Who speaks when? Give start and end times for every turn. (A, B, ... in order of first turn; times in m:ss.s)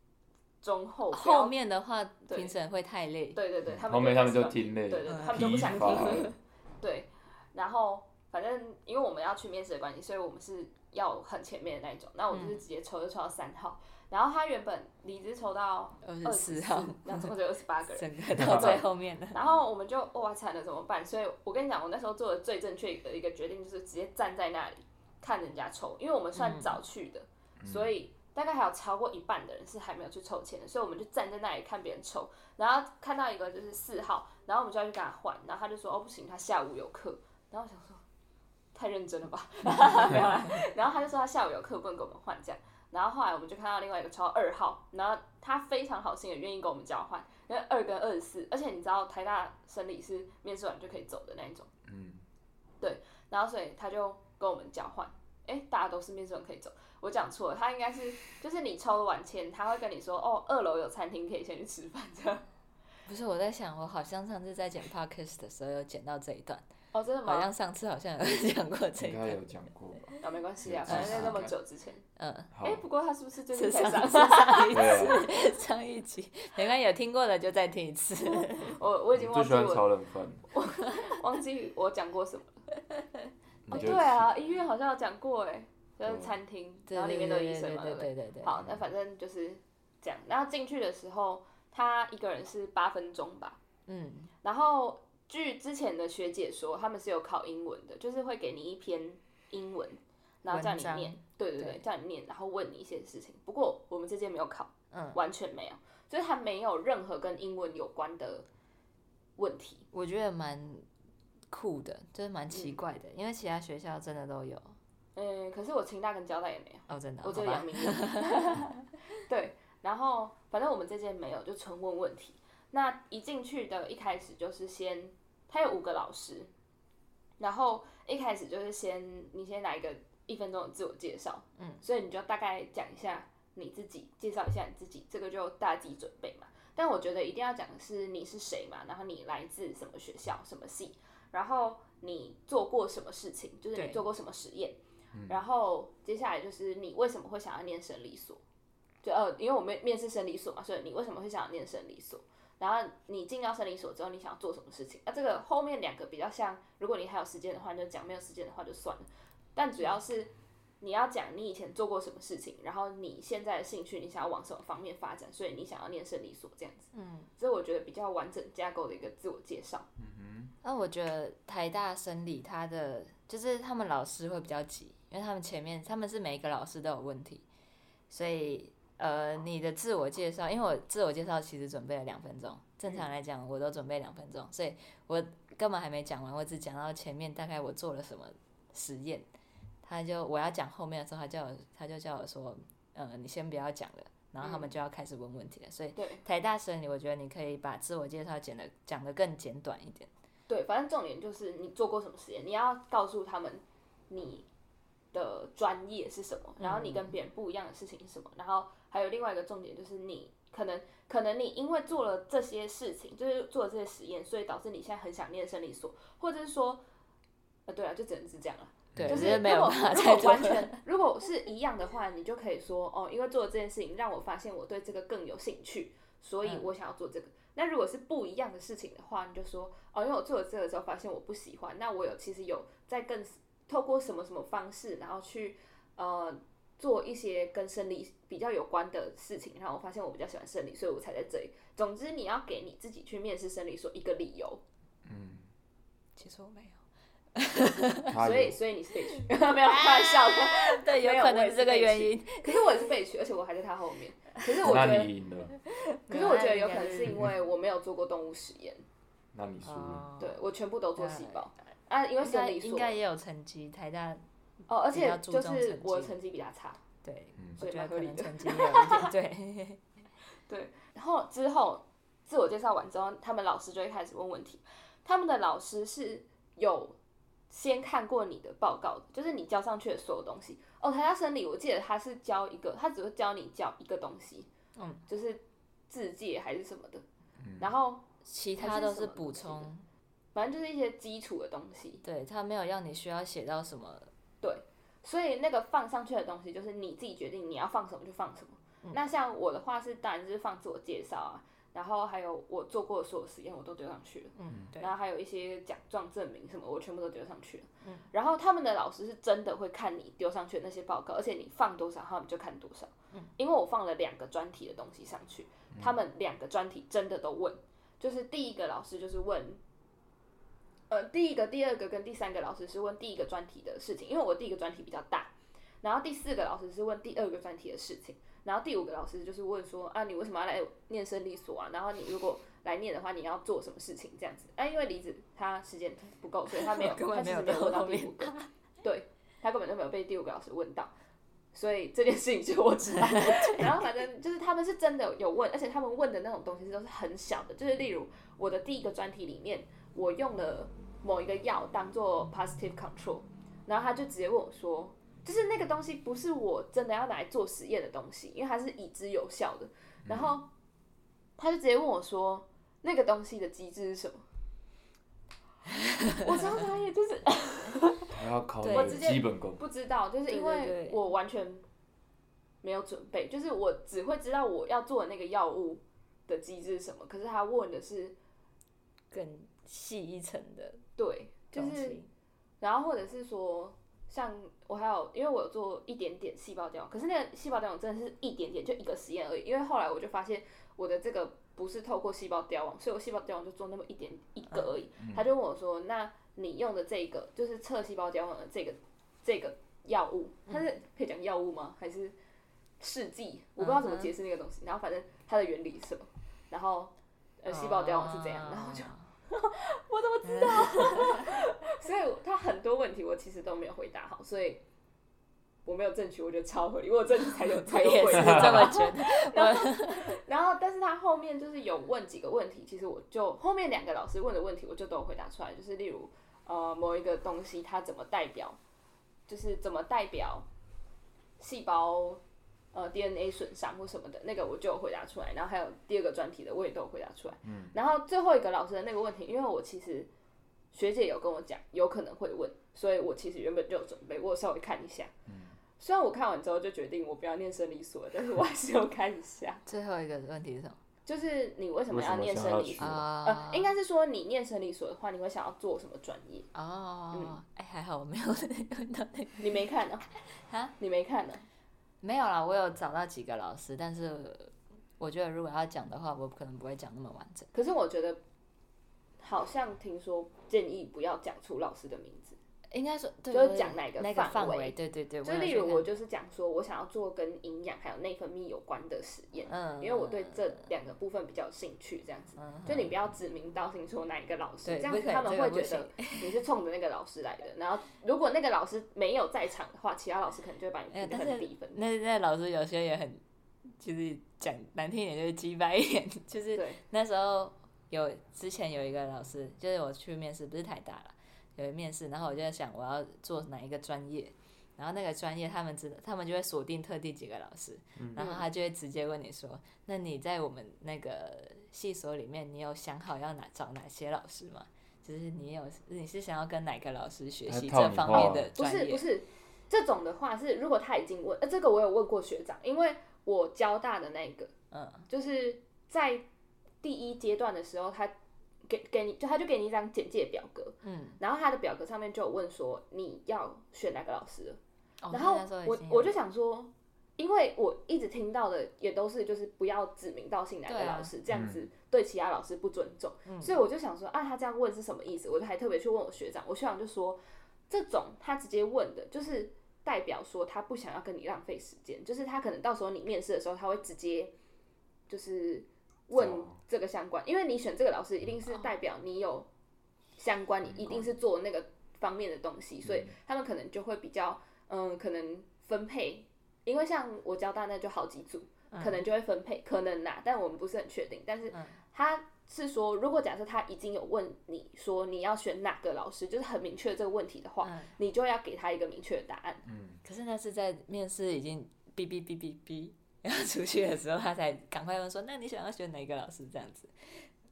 0:00.6-0:01.5 A
0:01.1-0:03.4 B
0:02.3-0:02.5 A
0:03.3-0:38.0 A
0:03.7-0:06.3 C
0:05.1-0:06.4 B
0:12.3-0:12.6 B
0:16.0-0:17.3 B
0:18.0-0:19.4 B
0:18.4-0:18.9 C
0:26.4-0:26.8 B
0:27.6-0:27.9 C
0:38.7-0:51.7 A
0:51.9-0:52.2 C
0:52.8-1:02.4 A
1:03.1-1:06.6 B
1:06.9-1:07.5 A
1:07.2-1:09.4 B
1:09.0-1:10.1 C
1:10.2-1:12.0 A
1:10.6-1:11.5 C
1:10.9-1:11.5 B
1:12.2-1:12.5 B
1:12.5-1:12.8 C
1:12.6-1:15.3 A
1:13.5-1:18.8 B
1:14.7-1:15.3 C
1:18.3-1:19.9 A
1:19.2-1:20.5 C
1:20.5-1:22.6 A
1:23.7-1:24.3 C
1:23.7-1:33.6 A
1:26.0-1:26.3 C
1:26.9-1:28.6 B
1:33.9-1:34.3 B
1:34.4-1:48.5 A
1:40.5-1:41.8 B
1:44.9-1:45.2 B
1:49.4-1:49.9 A
1:49.9-1:50.9 B
1:51.5-1:54.8 B
1:52.5-1:52.8 A
1:55.2-1:58.7 A
1:56.9-1:58.7 B
1:59.2-2:06.5 A
2:07.4-2:28.4 A
2:11.6-2:11.8 B
2:23.8-2:24.0 B
2:29.0-2:49.9 A
2:46.9-2:47.3 B
2:50.0-2:50.5 C
2:50.6-2:57.4 B
2:58.1-3:09.3 B
3:09.8-3:20.1 B
3:14.4-3:14.7 A
3:16.0-3:16.2 A
3:20.5-3:24.5 A
3:25.1-3:36.8 A
3:26.6-3:27.1 B
3:37.7-4:04.6 A
3:38.9-3:39.4 C
3:39.0-3:40.8 B
4:05.0-4:05.5 C
4:06.2-4:06.8 B
4:07.4-4:08.2 B
4:08.1-4:08.6 C
4:08.2-4:15.1 A
4:09.5-4:12.8 B
4:14.6-4:15.5 C
4:15.9-4:17.3 B
4:16.1-4:18.8 A
4:19.3-4:20.0 C
4:19.6-4:20.4 B
4:20.2-4:23.0 A
4:21.0-4:21.5 B
4:22.2-4:24.2 B
4:24.7-4:26.8 A
4:24.9-4:26.2 B
4:27.0-4:29.8 B
4:27.6-4:29.1 A
4:30.5-4:37.0 A
4:37.5-4:44.5 A
4:44.8-4:45.0 B
4:45.1-4:47.0 A
4:47.4-4:47.7 C
4:47.6-4:48.0 A
4:48.2-4:49.8 B
4:48.6-4:49.7 A
4:50.4-4:52.0 A
4:52.0-4:54.1 B
4:54.4-5:19.6 A
5:04.4-5:04.9 B
5:20.9-5:25.3 A
5:25.8-5:40.9 A
5:36.5-5:38.5 B
5:41.5-6:00.5 A
5:43.0-5:43.8 B
6:00.1-6:00.4 C
6:01.4-6:04.2 A
6:06.2-6:08.2 A
6:08.2-6:09.6 C
6:08.6-6:09.2 B
6:08.7-6:11.6 A
6:10.3-6:11.0 B
6:12.6-6:18.2 A
6:19.1-6:20.8 B
6:21.0-6:22.0 A
6:21.5-6:22.1 B
6:22.6-6:42.2 A
6:35.0-6:35.3 C
6:42.8-6:54.6 A
6:43.6-6:44.1 B
6:47.5-6:49.0 B
6:50.2-6:51.3 B
6:55.6-7:08.6 A
6:57.6-7:00.2 B
7:09.3-7:10.5 A
7:11.4-7:12.2 A
7:12.7-7:20.1 A
7:17.4-7:17.7 C
7:20.7-7:25.1 A
7:25.3-7:25.6 C
7:25.8-7:29.6 A
7:29.7-7:30.8 B
7:31.1-7:36.5 A
7:31.9-7:33.0 C
7:32.8-7:33.7 B
7:36.5-7:39.6 B
7:39.4-7:40.1 A
7:40.3-7:40.7 B
7:40.8-7:41.4 A
7:42.0-7:47.5 B
7:47.5-7:48.2 A
7:49.2-7:52.4 A
7:52.7-7:55.9 B
7:53.3-8:11.8 A
7:59.5-8:00.6 B
8:02.4-8:02.9 B
8:04.6-8:06.4 B
8:10.9-8:39.1 B
8:16.5-8:16.8 A
8:28.0-8:28.2 C
8:28.2-8:28.4 A
8:37.5-8:38.5 C
8:38.1-8:44.5 A
8:44.7-8:45.1 B
8:45.1-8:46.3 A
8:46.8-8:48.2 A
8:48.7-8:54.6 A
8:50.8-8:51.2 B
8:55.0-8:56.2 B
8:55.1-9:14.3 A
9:00.7-9:01.1 B
9:01.3-9:01.6 C
9:03.3-9:03.6 B
9:15.1-9:19.5 A
9:16.1-9:16.6 C
9:20.2-9:39.6 A
9:20.7-9:21.0 C
9:22.8-9:23.1 C
9:28.7-9:29.0 B
9:31.5-9:31.8 B
9:37.6-9:37.9 B
9:39.7-9:40.0 C
9:40.0-9:47.3 B